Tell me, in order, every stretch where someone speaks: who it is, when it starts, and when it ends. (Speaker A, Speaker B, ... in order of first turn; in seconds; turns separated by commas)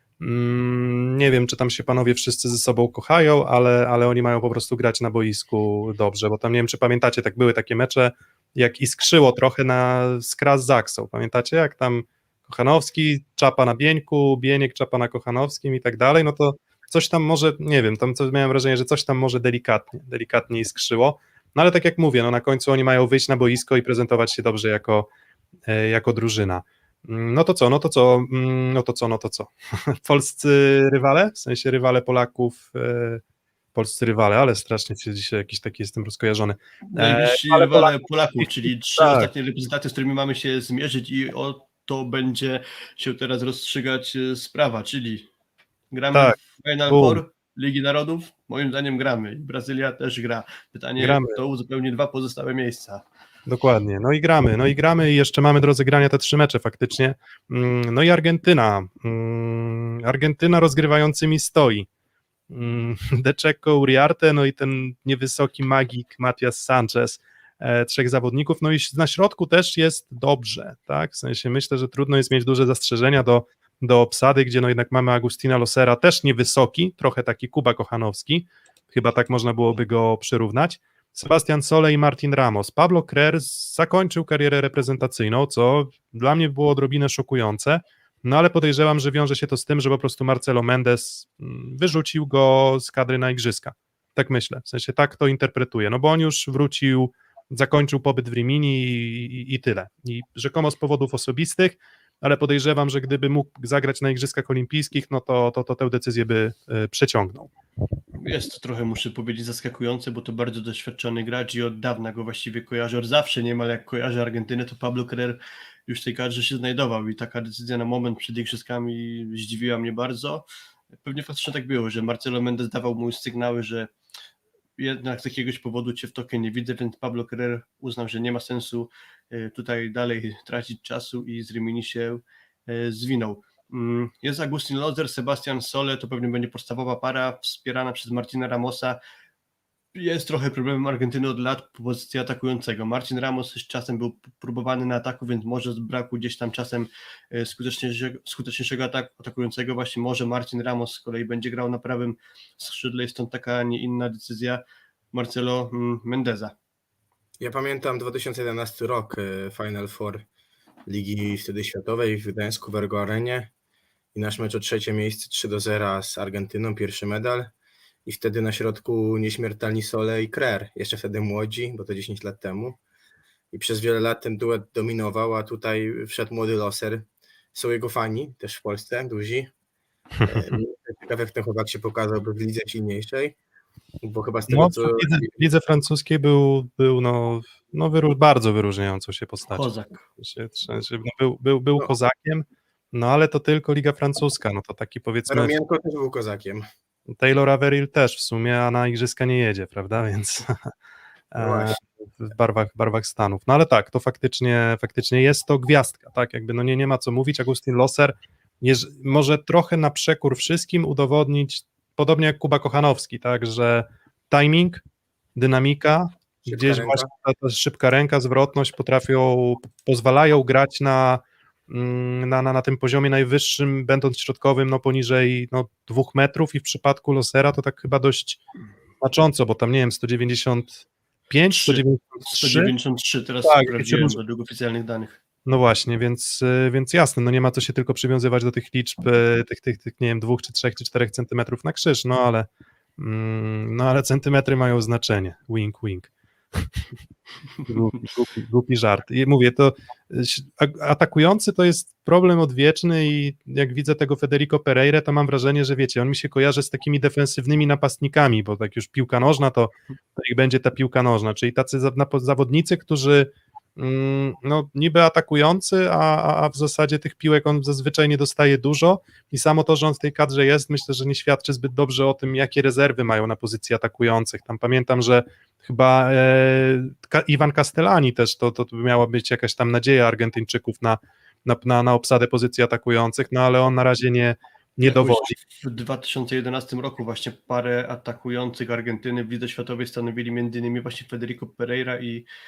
Speaker A: 0.2-25.1, Speaker A: 25.7-33.2, Speaker A: 33.8-39.3, Speaker B: 36.9-45.3, Speaker B: 45.9-53.0, Speaker A: 46.9-47.2, Speaker A: 51.0-51.4, Speaker A: 53.5-61.9, Speaker A: 62.5-107.5, Speaker B: 108.2-120.5, Speaker B: 121.0-123.9, Speaker B: 124.8-139.0, Speaker B: 139.9-156.6, Speaker C: 157.4-160.3, Speaker C: 160.9-163.5, Speaker C: 164.2-167.5, Speaker C: 168.1-172.8, Speaker C: 173.5-179.5, Speaker A: 180.2-180.6, Speaker C: 180.3-183.3, Speaker C: 184.0-185.3, Speaker A: 184.5-195.5, Speaker B: 189.6-190.0, Speaker C: 195.3-196.7, Speaker A: 197.1-200.7, Speaker A: 201.3-214.8, Speaker C: 201.4-201.8, Speaker A: 215.4-228.4, Speaker C: 216.5-217.1, Speaker A: 229.0-232.7, Speaker B: 231.5-235.2, Speaker A: 233.4-234.2, Speaker A: 235.4-246.8, Speaker A: 247.7-285.4, Speaker B: 284.9-292.3